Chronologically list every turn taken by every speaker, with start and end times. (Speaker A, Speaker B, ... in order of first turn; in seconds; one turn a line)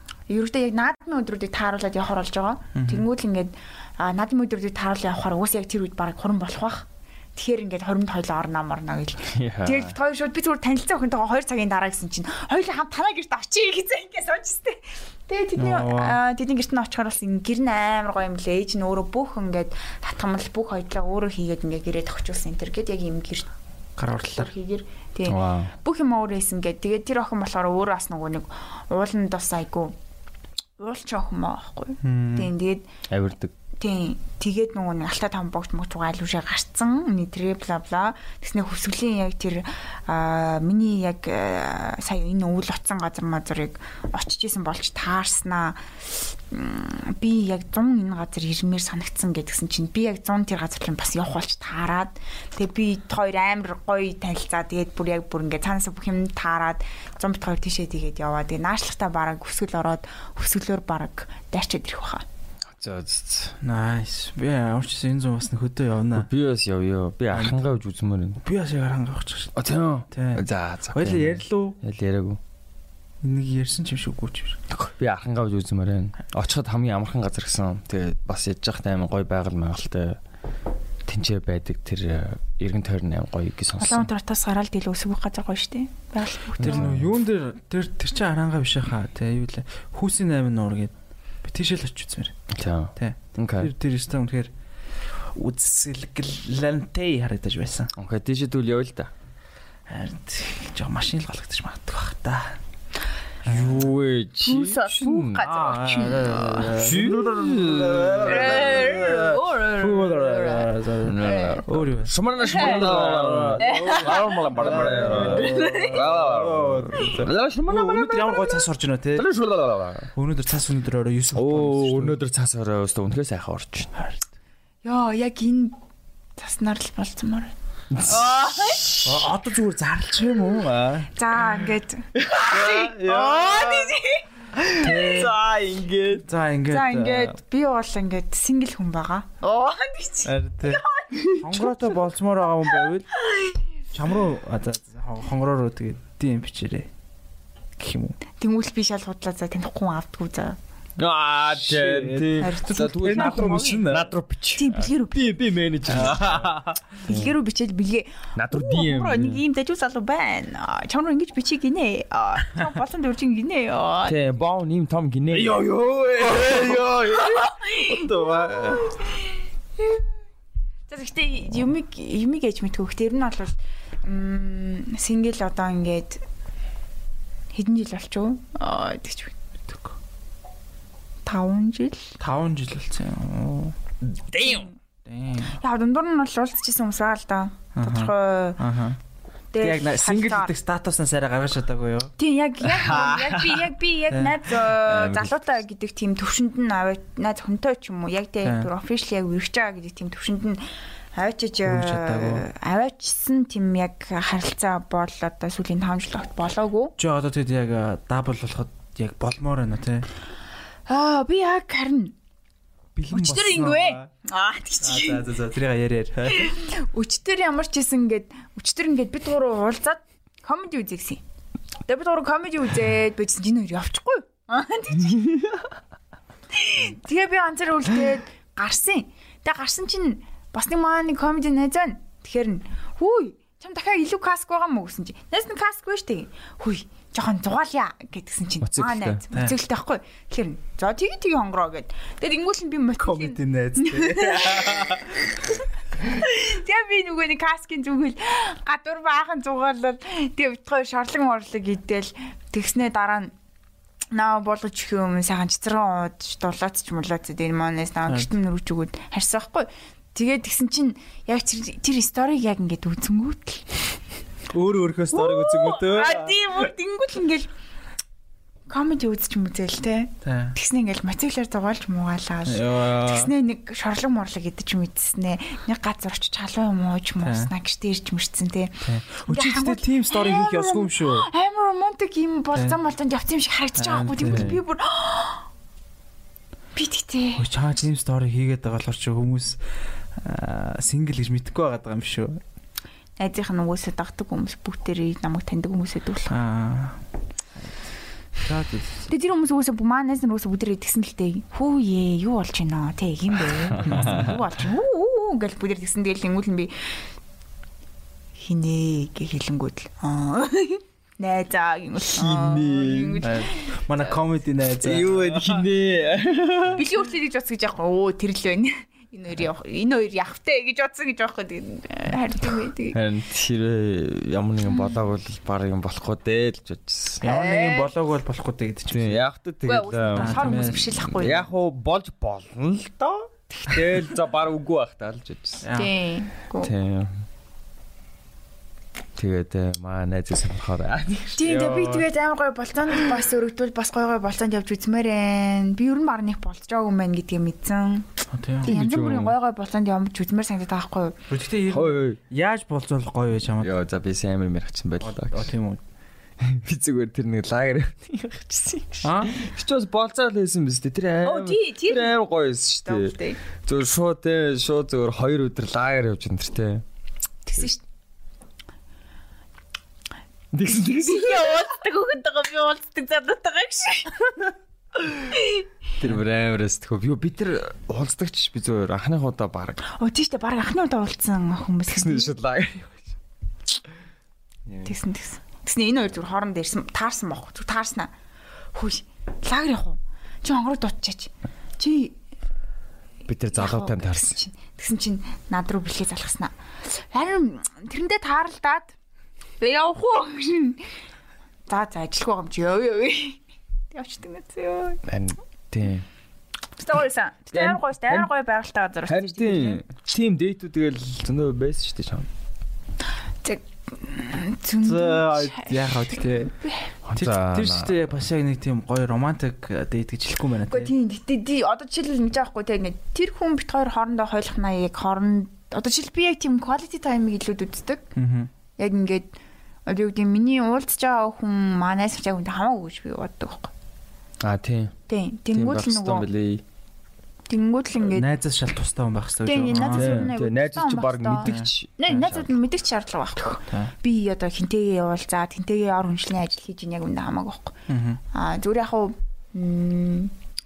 Speaker A: 0.3-23.5
Speaker B: 2.8-3.1
Speaker C: 9.3-9.9
Speaker B: 15.6-16.2
Speaker B: 24.0-24.5
Speaker A: 24.1-30.0
Speaker C: 25.3-25.7
Speaker A: 30.8-32.9
Speaker B: 32.0-32.5
Speaker C: 33.1-33.5
Speaker A: 33.8-62.3
Speaker C: 62.7-63.6
Speaker B: 63.6-66.3
Speaker C: 66.1-68.4
Speaker B: 68.4-69.5
Speaker C: 69.6-72.4
Speaker B: 70.1-71.8
Speaker B: 73.2-74.6
Speaker C: 74.7-80.2
Speaker C: 81.1-84.1
Speaker A: 83.8-86.9
Speaker C: 86.6-87.1
Speaker B: 86.6-90.9
Speaker B: 91.4-92.3
Speaker C: 92.5-93.7
Speaker B: 93.0-94.5
Speaker B: 95.1-97.9
Speaker C: 98.0-99.1
Speaker B: 99.9-102.6
Speaker B: 103.4-103.9
Speaker C: 103.5-105.5
Speaker A: 104.4-106.7
Speaker B: 105.4-119.3
Speaker C: 106.7-109.4
Speaker A: 108.2-111.6
Speaker C: 111.0-118.4
Speaker A: 112.4-112.9
Speaker A: 113.6-114.4
Speaker A: 115.1-116.0
Speaker C: 119.2-120.1
Speaker B: 120.2-122.2
Speaker C: 121.3-123.9
Speaker B: 123.9-124.3
Speaker A: 124.8-125.8
Speaker A: 126.4-127.5
Speaker C: 127.9-129.2
Speaker B: 129.0-131.1
Speaker A: 131.1-134.2
Speaker C: 132.2-134.0
Speaker B: 132.8-133.3
Speaker C: 134.5-136.2
Speaker B: 134.8-135.3
Speaker B: 136.2-137.4
Speaker A: 136.7-141.4
Speaker B: 140.2-140.8
Speaker B: 141.4-143.1
Speaker A: 143.2-143.6
Speaker B: 143.9-146.9
Speaker B: 147.8-148.2
Speaker A: 148.4-150.6
Speaker C: 151.0-157.3
Speaker B: 151.5-154.1
Speaker A: 152.4-153.8
Speaker A: 154.6-155.3
Speaker B: 155.9-156.8
Speaker A: 157.0-164.2
Speaker C: 158.4-159.4
Speaker C: 164.1-167.5
Speaker B: 165.3-167.3
Speaker A: 167.1-169.3
Speaker B: 167.9-168.9
Speaker A: 170.9-176.2
Speaker A: 177.5-179.4
Speaker A: 181.3-182.2
Speaker B: 182.2-183.8
Speaker C: 184.1-184.7
Speaker A: 184.4-184.7
Speaker B: 185.1-185.6
Speaker A: 185.4-188.6
Speaker B: 187.8-189.0
Speaker A: 189.5-190.5
Speaker B: 189.6-192.1
Speaker A: 192.2-207.0
Speaker C: 192.8-193.6
Speaker B: 194.1-194.4
Speaker C: 194.7-195.5
Speaker B: 198.4-198.7
Speaker B: 201.6-202.5
Speaker B: 207.0-210.1
Speaker A: 210.9-212.2
Speaker B: 213.0-214.1
Speaker A: 213.1-215.3
Speaker B: 214.8-216.6
Speaker A: 216.3-221.2
Speaker A: 221.9-225.4
Speaker A: 226.5-245.2
Speaker C: 238.6-239.2
Speaker B: 243.0-245.1
Speaker A: 246.0-253.3
Speaker A: 254.1-264.0
Speaker B: 264.5-266.4
Speaker A: 265.1-267.5
Speaker A: 268.7-285.5
Speaker B: 270.2-270.6
Speaker B: 272.5-273.3
Speaker B: 277.2-277.5
Speaker B: 278.8-281.3
Speaker B: 283.8-284.6
Speaker C: 284.2-284.6
Speaker A: 286.8-287.5
Speaker B: 287.4-289.6
Speaker B: 290.1-292.4
Speaker A: 293.2-296.4
Speaker B: 296.3-297.0
Speaker B: 298.4-298.9
Speaker A: 299.1-307.0
Speaker C: 303.8-304.3
Speaker B: 303.8-304.4
Speaker A: 308.4-313.8
Speaker C: 312.1-313.3
Speaker B: 313.2-315.7
Speaker C: 314.8-316.9
Speaker A: 316.7-323.0
Speaker C: 322.9-327.2
Speaker A: 324.7-325.0
Speaker B: 327.2-329.2
Speaker A: 327.2-327.9
Speaker C: 328.9-335.7
Speaker A: 329.7-331.5
Speaker B: 330.1-331.1
Speaker B: 335.6-335.9
Speaker A: 335.7-336.7
Speaker C: 336.6-337.2
Speaker C: 339.2-342.1
Speaker A: 341.3-351.2
Speaker B: 348.3-348.7
Speaker C: 348.7-349.4
Speaker B: 351.3-353.7
Speaker C: 351.7-352.2
Speaker C: 353.6-355.5
Speaker B: 355.0-355.8
Speaker C: 356.4-366.8
Speaker B: 359.0-359.4
Speaker A: 361.2-362.1
Speaker A: 362.9-363.4
Speaker A: 367.5-367.8
Speaker C: 370.5-371.7
Speaker A: 371.1-374.4
Speaker C: 375.0-375.3
Speaker A: 375.3-375.7
Speaker C: 376.0-379.8
Speaker A: 379.8-382.3
Speaker C: 381.9-383.0
Speaker C: 384.7-384.9
Speaker A: 384.9-388.1
Speaker A: 388.7-392.2
Speaker C: 393.3-394.4
Speaker A: 393.6-398.9
Speaker A: 399.6-400.9
Speaker A: 401.7-405.0
Speaker C: 405.1-406.1
Speaker A: 406.8-409.8
Speaker C: 407.5-408.3
Speaker C: 409.1-412.3
Speaker A: 413.4-416.9
Speaker B: 414.8-416.6
Speaker C: 417.1-417.9
Speaker B: 417.1-420.9
Speaker A: 420.7-428.1
Speaker B: 428.1-428.5
Speaker A: 428.8-429.4
Speaker A: 429.9-433.7
Speaker C: 434.4-434.9
Speaker A: 435.1-436.3
Speaker C: 435.5-436.6
Speaker A: 437.5-438.3
Speaker B: 438.0-440.3
Speaker A: 439.4-447.8
Speaker C: 439.8-442.5
Speaker B: 441.4-442.3
Speaker B: 443.7-443.9
Speaker B: 447.9-448.2
Speaker A: 448.3-450.3